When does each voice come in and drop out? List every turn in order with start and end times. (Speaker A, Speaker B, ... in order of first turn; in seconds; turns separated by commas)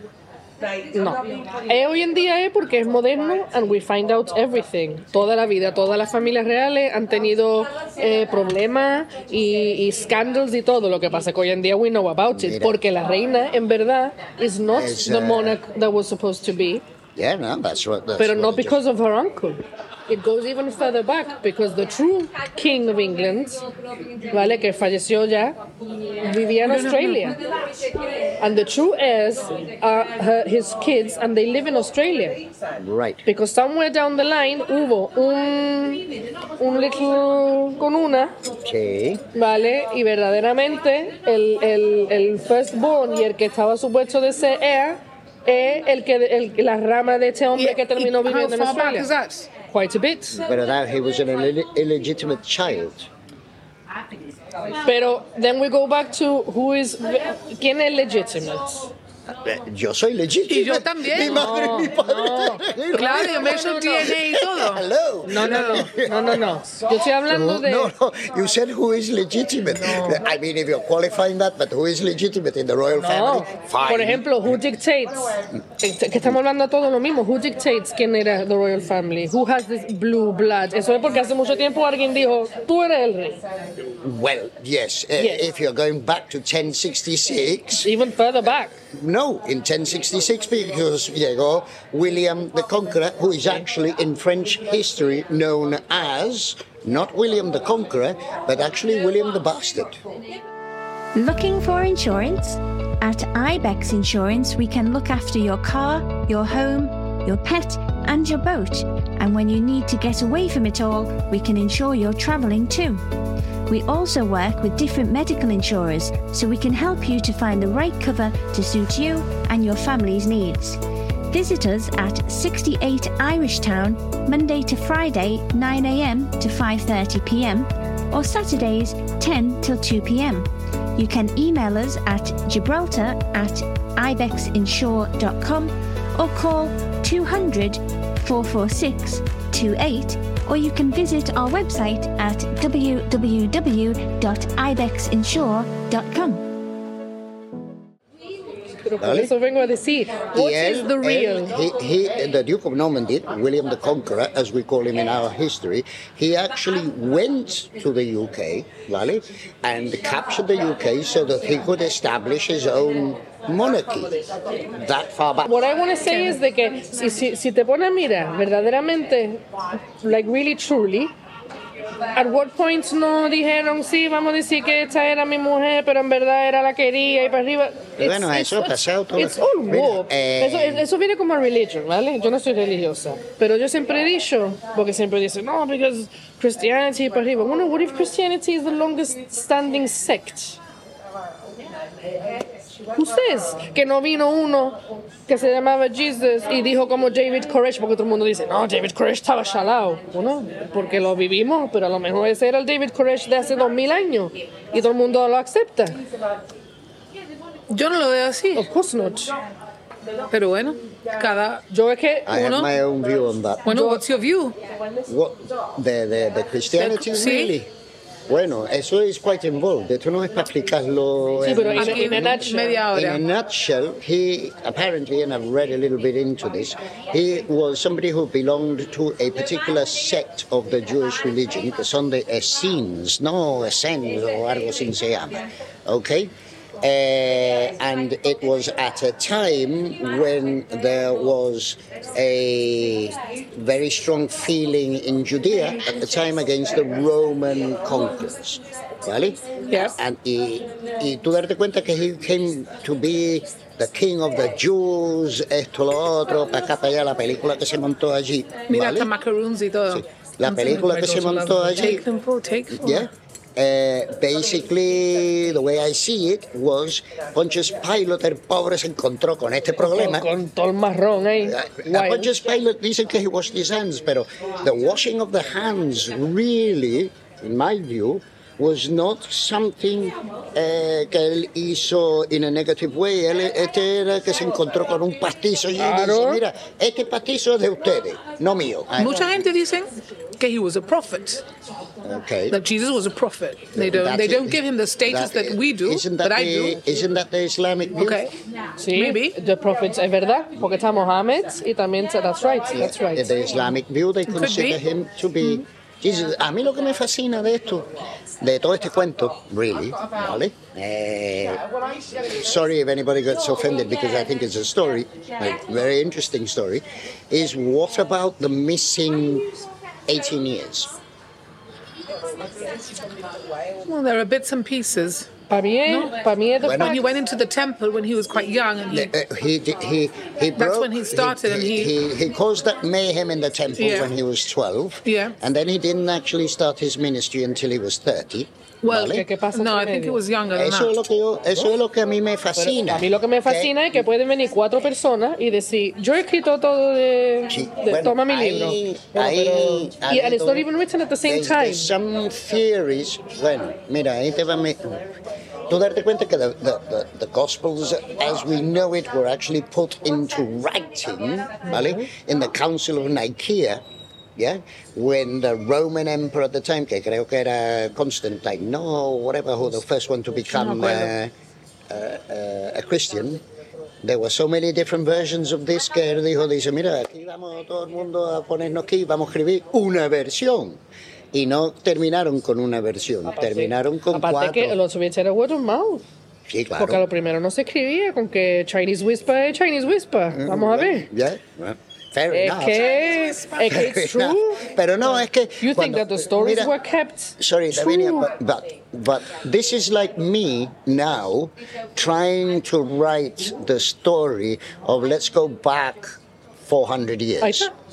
Speaker A: 0.9-16.8, Speaker B: 12.3-12.8, Speaker B: 14.7-15.6, Speaker B: 17.2-18.8, Speaker A: 18.2-23.6, Speaker A: 24.3-25.6, Speaker A: 26.2-27.4, Speaker C: 26.6-27.4, Speaker A: 28.4-32.4, Speaker B: 32.8-33.2, Speaker A: 33.3-36.1, Speaker A: 36.6-38.4, Speaker B: 38.6-39.2, Speaker A: 39.3-49.1, Speaker C: 47.6-49.5, Speaker A: 49.7-50.4, Speaker B: 50.3-53.1, Speaker A: 54.8-58.9, Speaker B: 59.3-66.4, Speaker C: 60.5-61.8, Speaker A: 61.2-64.1, Speaker C: 62.9-65.9, Speaker A: 65.2-67.9, Speaker B: 67.3-74.6, Speaker A: 69.7-70.2, Speaker A: 73.0-83.4, Speaker B: 83.8-87.9, Speaker A: 85.2-85.4, Speaker A: 87.8-88.8, Speaker B: 88.9-100.0, Speaker D: 101.2-113.0, Speaker D: 113.7-146.4, Speaker A: 148.8-151.6, Speaker B: 149.0-149.3, Speaker B: 150.3-165.7, Speaker A: 165.4-171.1, Speaker C: 166.1-166.4, Speaker A: 172.1-190.6, Speaker B: 178.0-180.9, Speaker A: 192.9-206.0, Speaker C: 207.7-208.7, Speaker A: 208.6-209.4, Speaker C: 210.3-211.7, Speaker A: 211.7-212.5, Speaker B: 212.3-213.7, Speaker C: 212.3-212.7, Speaker C: 213.7-214.6, Speaker A: 213.7-214.0, Speaker B: 215.1-217.7, Speaker C: 216.7-217.6, Speaker B: 218.3-259.1, Speaker A: 221.4-222.8, Speaker C: 221.8-223.2, Speaker C: 249.7-250.0, Speaker C: 258.7-260.1, Speaker B: 259.9-262.0, Speaker A: 260.5-262.0, Speaker C: 261.8-263.1, Speaker B: 262.7-270.3, Speaker A: 269.8-272.3, Speaker B: 271.4-289.4, Speaker A: 285.8-286.4, Speaker C: 289.0-291.4, Speaker B: 292.0-292.6, Speaker C: 292.5-296.9, Speaker B: 293.7-298.2, Speaker C: 298.0-298.3, Speaker A: 298.8-303.3, Speaker C: 298.9-299.4, Speaker B: 302.7-311.6, Speaker C: 304.3-304.8, Speaker B: 312.1-321.0, Speaker C: 323.9-325.3, Speaker A: 325.5-327.1, Speaker C: 325.9-329.1, Speaker B: 326.6-327.0, Speaker B: 328.9-339.3, Speaker C: 330.6-331.9, Speaker C: 333.8-334.1, Speaker C: 335.1-335.4, Speaker C: 338.8-340.9, Speaker A: 339.0-340.2, Speaker B: 340.5-343.9, Speaker A: 342.6-351.9, Speaker B: 347.5-350.7, Speaker B: 351.2-355.0, Speaker B: 355.7-363.8, Speaker A: 361.6-362.1, Speaker B: 364.4-371.3, Speaker C: 370.5-371.1, Speaker B: 371.9-373.4, Speaker B: 374.0-380.8, Speaker B: 381.3-384.8, Speaker A: 383.4-386.1, Speaker B: 386.5-387.1, Speaker A: 386.8-391.1, Speaker B: 390.3-392.9, Speaker A: 392.3-394.7, Speaker C: 392.9-393.6, Speaker B: 393.7-396.7, Speaker A: 395.6-398.3, Speaker B: 397.4-407.7, Speaker A: 407.4-407.7